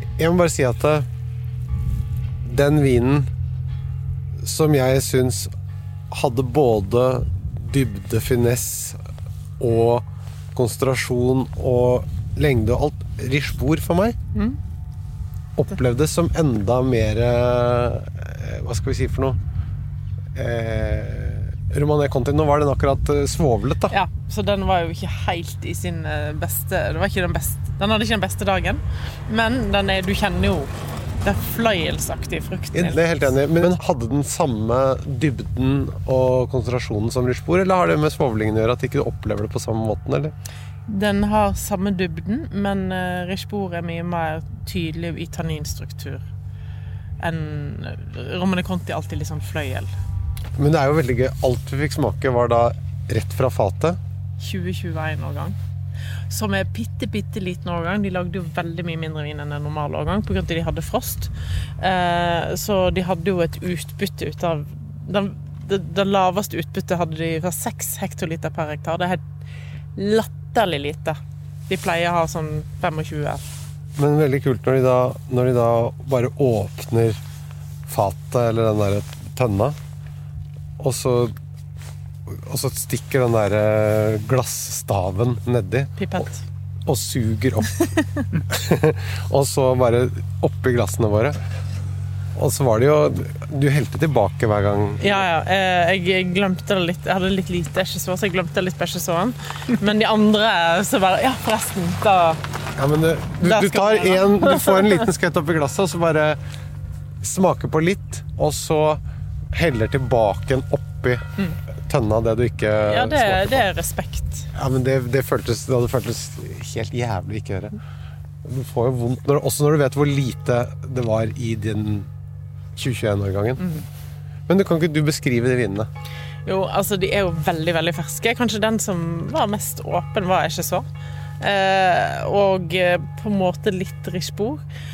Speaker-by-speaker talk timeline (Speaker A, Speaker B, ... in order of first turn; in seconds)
Speaker A: 0.2-1.1, 2.4-3.3, 4.4-5.5, 6.1-9.0, 9.6-14.2, 15.6-19.4, 20.4-23.9, 32.7-40.3, 50.6-54.0, 74.0-77.2, 77.9-79.8, 80.8-81.3, 82.3-86.0, 86.9-87.9, 88.5-91.4, 92.4-95.2, 102.8-106.4, 107.2-111.2, 111.9-113.7, 114.5-117.8, 118.4-122.1, 122.8-123.8, 124.5-125.9
Speaker B: 23.9-30.7, 31.2-33.2, 40.9-46.2, 47.2-49.9, 54.4-55.6, 56.3-69.2, 70.0-71.2, 71.7-73.4, 86.0-86.4, 87.9-88.2, 95.0-102.4, 103.4-105.1, 112.8-114.5, 126.5-130.8, 131.4-134.6